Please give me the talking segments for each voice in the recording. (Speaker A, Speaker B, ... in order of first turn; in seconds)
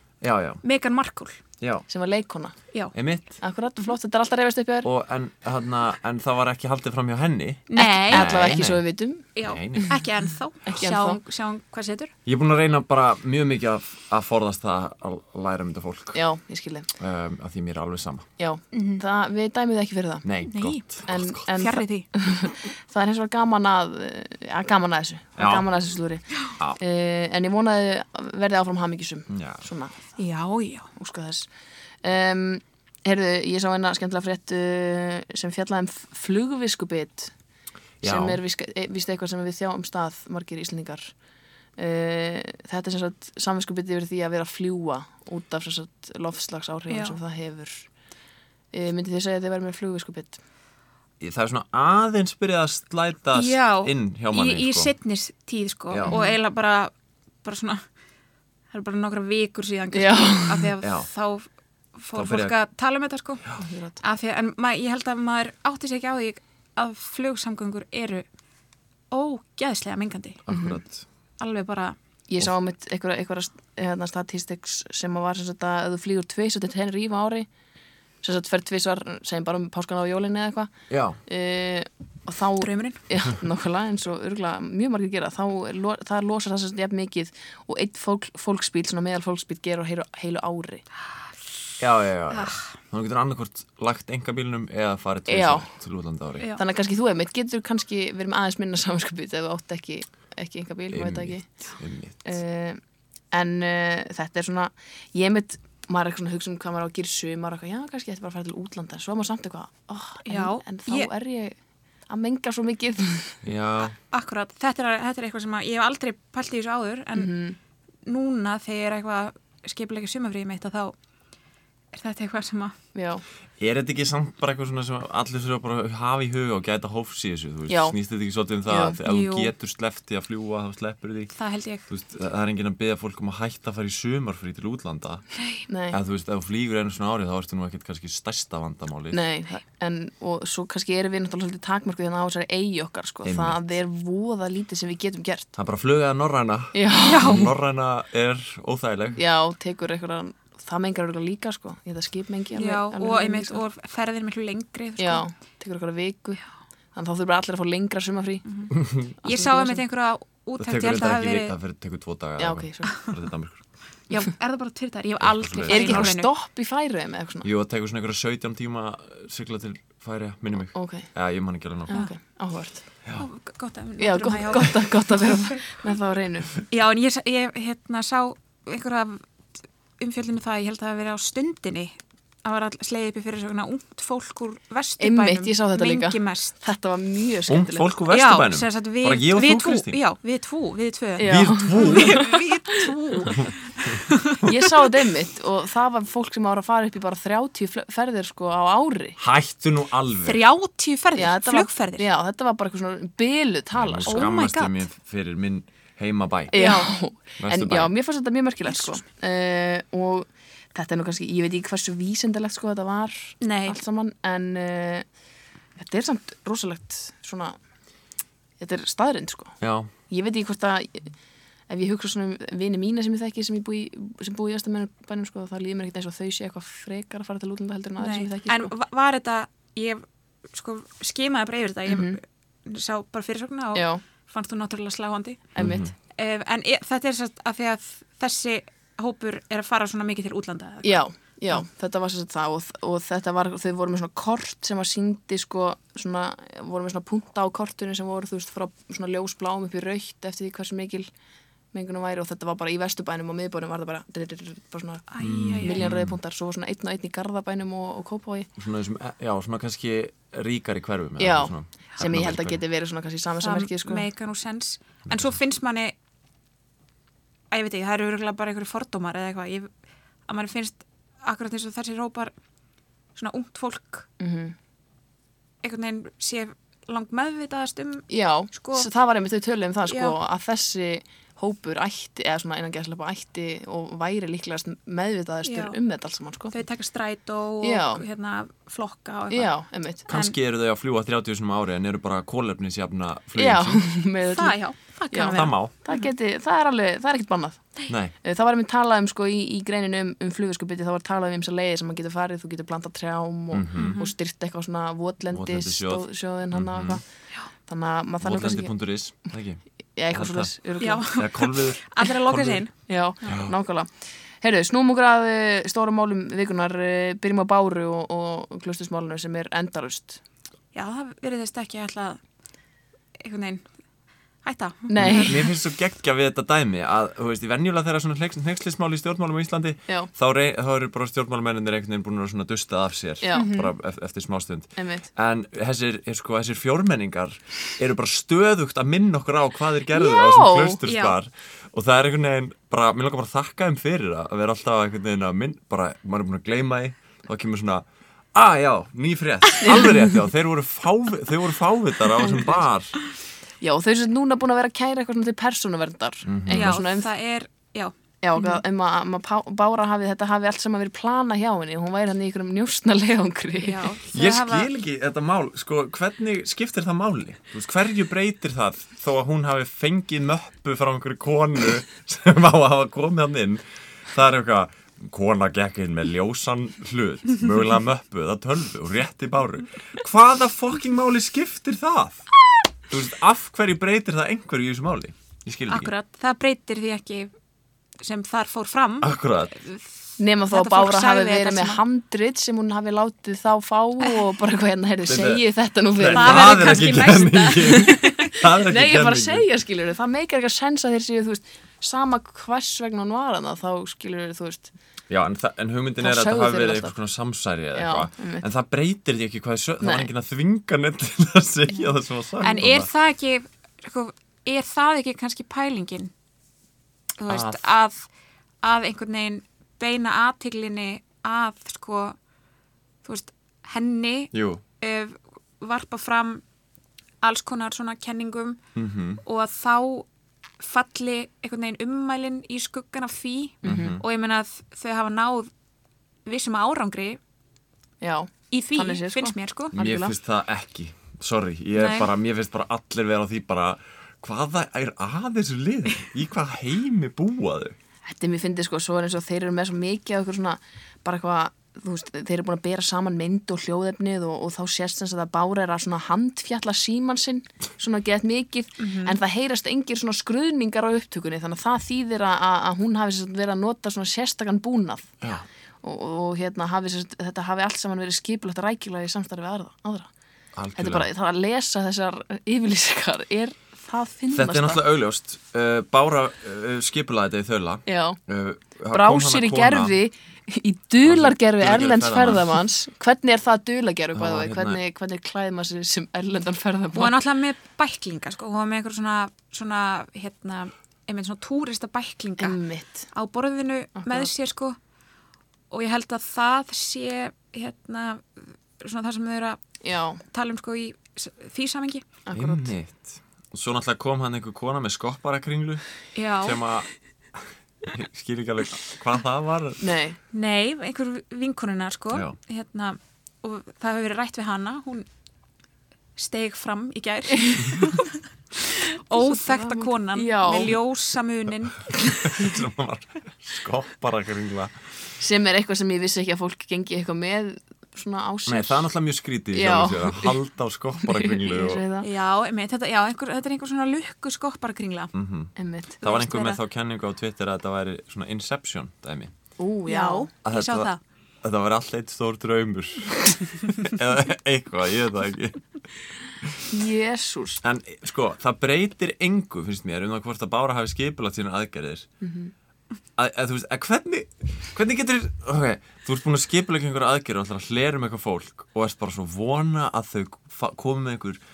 Speaker A: 0.2-0.6, 1.6-1.9, 2.9-3.4, 4.8-8.8, 9.4-9.9, 12.2-16.2, 17.0-18.3, 20.2-21.4, 25.4-25.7, 29.3-29.6, 38.0-38.4, 51.2-54.9, 55.9-56.1, 60.8-61.1, 62.1-62.5, 70.5-71.0, 80.9-81.2, 91.8-96.5, 100.9-102.4, 113.4-114.0, 123.6-131.3, 131.9-135.2, 135.9-139.2, 143.2-143.6, 145.6-149.2, 158.7-159.2, 160.6-163.6, 165.2-166.1, 167.4-171.9, 187.5-190.0, 191.2-192.3, 199.2-200.4, 203.7-206.6, 207.4-207.9, 219.6-219.9, 235.6-235.9, 255.2-256.2, 258.6-262.6, 265.1-265.4, 290.1-293.8, 295.3-295.7, 297.9-298.1, 303.5-303.9, 305.3-307.0, 308.2-310.5, 311.1-312.6, 313.2-313.5, 325.0-352.9, 356.2-356.8, 364.1-382.2, 382.9-385.9, 389.0-389.5, 395.1-395.4, 395.9-399.5, 405.1-412.9, 417.3-417.6, 424.3-424.6, 428.8-429.2, 433.6-434.0, 439.7-447.8, 470.6-471.1, 474.3-479.9, 481.0-482.6, 484.1-484.8, 502.3-505.8, 506.4-506.9, 507.8-509.8, 522.2-524.7, 528.5-531.8, 535.1-539.3, 540.4-540.9, 541.4-545.6, 547.6-552.1, 553.2-561.4
Speaker B: 0.6-1.4, 7.7-8.3, 9.3-12.1, 18.7-19.0, 20.4-22.1, 30.2-30.9, 46.9-47.2, 53.3-56.9, 57.4-57.8, 58.7-63.4, 64.0-68.2, 69.1-70.4, 71.4-72.0, 82.6-83.0, 92.3-92.7, 110.2-111.1, 114.1-117.3, 118.0-120.9, 121.9-122.7, 129.0-129.5, 131.3-131.8, 135.3-135.6, 147.0-147.5, 152.5-155.2, 158.4-161.5, 164.1-166.3, 173.2-175.2, 176.7-179.2, 180.0-186.6, 188.1-194.5, 200.2-202.1, 204.1-204.8, 206.5-206.9, 208.7-209.0, 213.4-213.8, 228.0-235.5, 236.2-241.0, 255.1-255.9, 263.4-265.9, 267.5-269.7, 270.3-272.3, 273.1-274.1, 275.6-278.9, 279.9-280.2, 285.4-285.8, 286.5-289.5, 290.1-290.3, 294.3-296.1, 303.8-304.1, 310.8-313.4, 320.7-322.2, 323.2-323.6, 324.4-325.5, 333.3-333.7, 340.9-341.1, 356.5-358.6, 363.6-364.7, 385.7-387.3, 388.0-391.8, 396.1-398.2, 412.4-416.1, 417.2-418.1, 418.6-422.2, 423.0-426.4, 427.2-428.6, 429.2-430.1, 430.6-435.5, 436.2-437.2, 438.5-439.7, 441.8-442.1, 458.8-459.2, 486.9-492.6, 493.1-494.8, 495.7-499.6, 500.3-502.0, 506.1-506.6, 510.3-515.1, 516.1-521.9, 532.0-535.1, 536.0-536.6, 539.9-541.0
Speaker C: 1.9-2.5, 3.4-4.9, 7.8-9.2, 10.6-11.2, 16.1-16.9, 18.4-20.2, 21.1-30.0, 30.9-31.5, 32.0-37.3, 38.0-41.1, 41.8-47.9, 48.7-50.4, 56.0-56.4, 59.9-60.7, 63.6-64.0, 70.5-70.8, 72.3-77.5, 78.2-80.7, 81.2-90.8, 95.3-95.7, 96.5-101.4, 102.2-102.8, 103.3-111.5, 112.1-113.4, 117.1-117.6, 122.9-123.2, 127.7-128.0, 128.7-129.0, 135.7-136.0, 139.1-145.5, 146.7-147.5, 149.2-153.6, 155.0-156.4, 156.9-158.4, 159.2-159.8, 162.4-163.1, 165.6-167.5, 170.7-171.1, 171.9-172.8, 174.0-176.5, 185.0-187.9, 191.2-192.4, 194.4-199.2, 201.2-204.3, 206.5-215.0, 215.8-217.6, 218.6-219.6, 220.1-221.1, 221.7-228.7, 231.9-232.2, 233.7-234.0, 235.6-235.9, 240.8-251.1, 251.7-255.1, 255.6-258.5, 261.2-264.1, 274.2-274.5, 278.1-286.5, 287.6-288.0, 289.3-290.0, 293.4-294.6, 295.1-297.7, 298.2-307.0, 307.6-308.7, 309.9-311.1, 312.9-320.2, 324.9-325.4, 333.2-333.6, 334.8-335.1, 339.9-340.8, 349.6-350.1, 352.2-352.6, 353.6-357.1, 358.2-363.9, 390.2-404.7, 406.0-406.9, 407.7-408.4, 409.8-410.1, 433.6-434.0, 438.0-440.1, 448.0-465.1, 465.8-470.1, 470.8-474.8, 477.9-478.2, 478.9-487.1, 492.4-493.1, 494.0-494.3, 499.8-500.2, 502.3-502.7, 509.8-510.2, 519.1-520.8, 525.2-528.9, 529.5-530.4, 531.0-532.1, 535.5-536.0, 539.6-540.3, 546.7-547.6, 552.2-552.5